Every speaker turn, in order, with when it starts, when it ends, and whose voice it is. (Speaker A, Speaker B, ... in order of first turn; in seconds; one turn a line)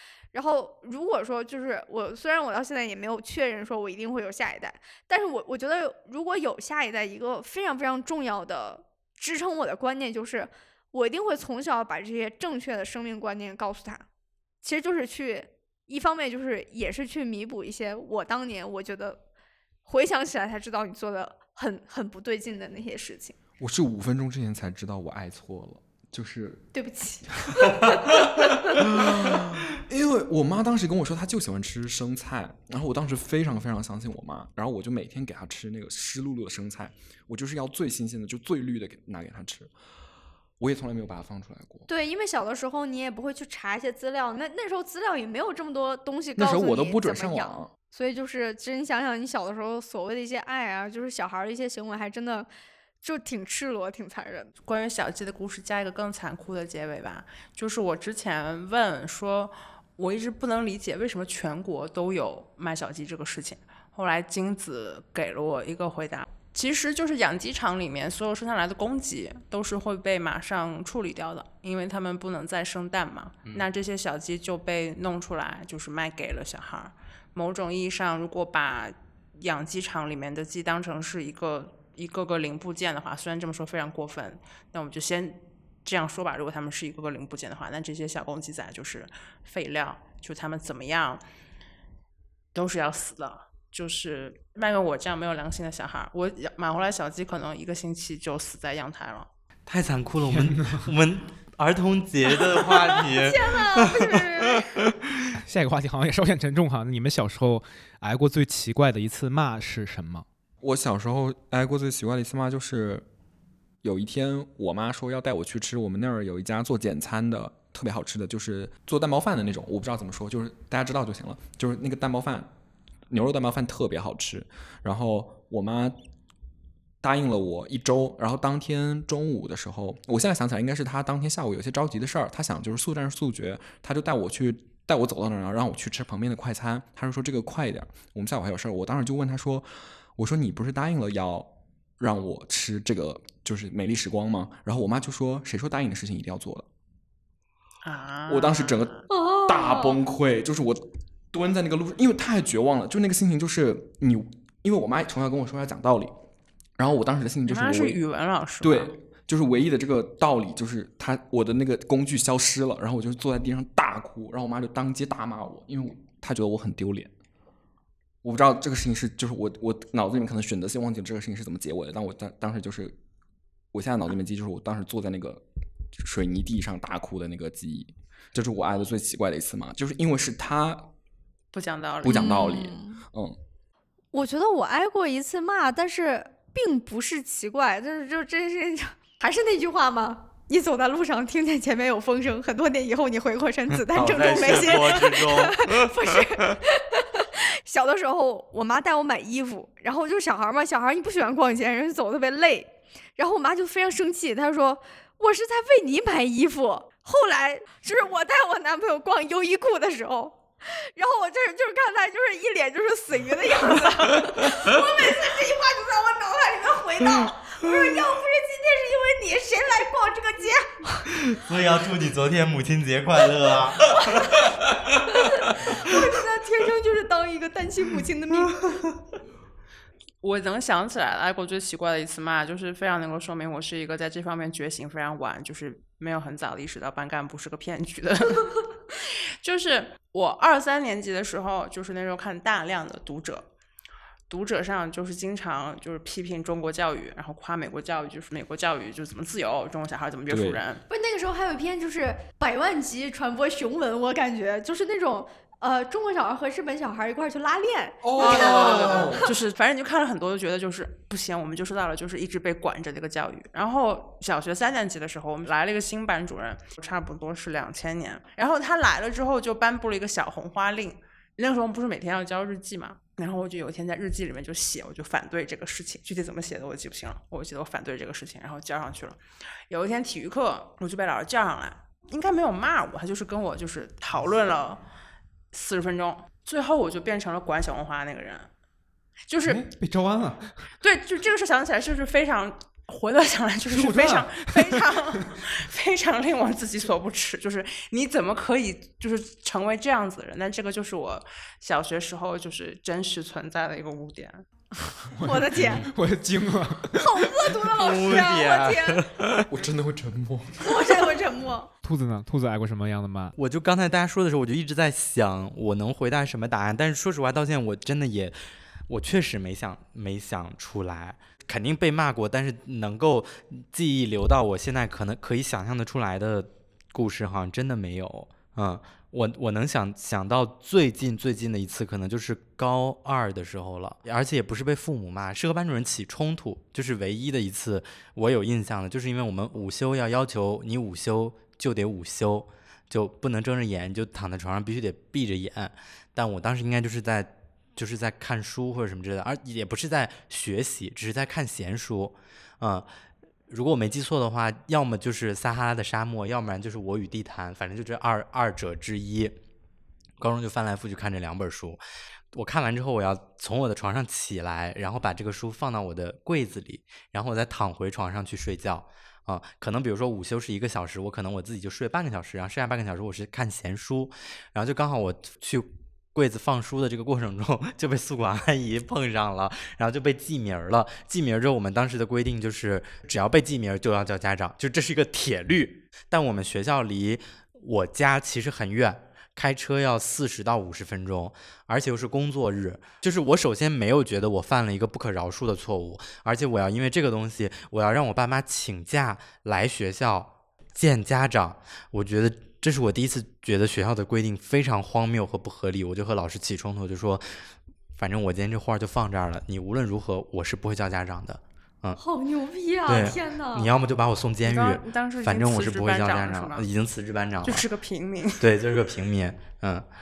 Speaker A: 0.3-14.1
Speaker A: 14.6-19.2
Speaker A: 19.9-23.4
Speaker B: 23.6-26.6
Speaker A: 26.7-28.8
Speaker B: 28.7-39.7
Speaker B: 40.6-41.9
Speaker A: 41.9-52.5
Speaker B: 46.4-47.7
Speaker A: 53.0-54.5
Speaker C: 54.6-91.2
Speaker C: 92.5-99.3
Speaker D: 99.7-104.2
Speaker E: 100.2-100.9
Speaker A: 102.4-104.8
Speaker E: 105.4-110.2
Speaker B: 110.6-113.1
Speaker B: 113.8-122.5
Speaker B: 123.1-125.9
Speaker B: 127.0-146.7
Speaker C: 147.8-149.1
Speaker B: 148.3-156.1
Speaker A: 149.1-150.0
Speaker B: 156.8-158.0
Speaker C: 157.5-158.9
Speaker B: 158.6-167.1
Speaker B: 168.2-172.9
Speaker B: 173.7-180.9
Speaker C: 181.5-182.4
Speaker B: 182.0-183.4
Speaker A: 182.1-183.0
Speaker A: 184.1-221.1
Speaker D: 193.9-196.6
Speaker D: 221.2-225.1
Speaker A: 223.9-224.6
Speaker A: 225.1-228.6
Speaker C: 230.2-243.5
Speaker C: 244.3-250.8
Speaker B: 250.3-250.6
Speaker A: 250.9-259.2
Speaker B: 258.0-259.3
Speaker C: 258.2-284.8
Speaker C: 285.5-288.5
Speaker C: 289.3-289.7
Speaker E: 289.4-290.6
Speaker C: 290.8-304.4
Speaker E: 293.7-294.8
Speaker A: 305.1-305.9
Speaker E: 305.1-307.5
Speaker A: 306.9-309.1
Speaker D: 307.8-309.5
Speaker B: 309.5-310.9
Speaker A: 310.6-311.7
Speaker E: 311.8-313.4
Speaker D: 313.4-318.4
Speaker D: 318.9-352.9
Speaker D: 353.5-359.3
Speaker D: 360.2-361.8
Speaker D: 362.3-407.3
Speaker D: 407.9-412.0
Speaker A: 412.0-413.7
Speaker D: 412.9-417.6
Speaker C: 414.4-416.7
Speaker C: 417.4-418.4
Speaker D: 418.4-419.9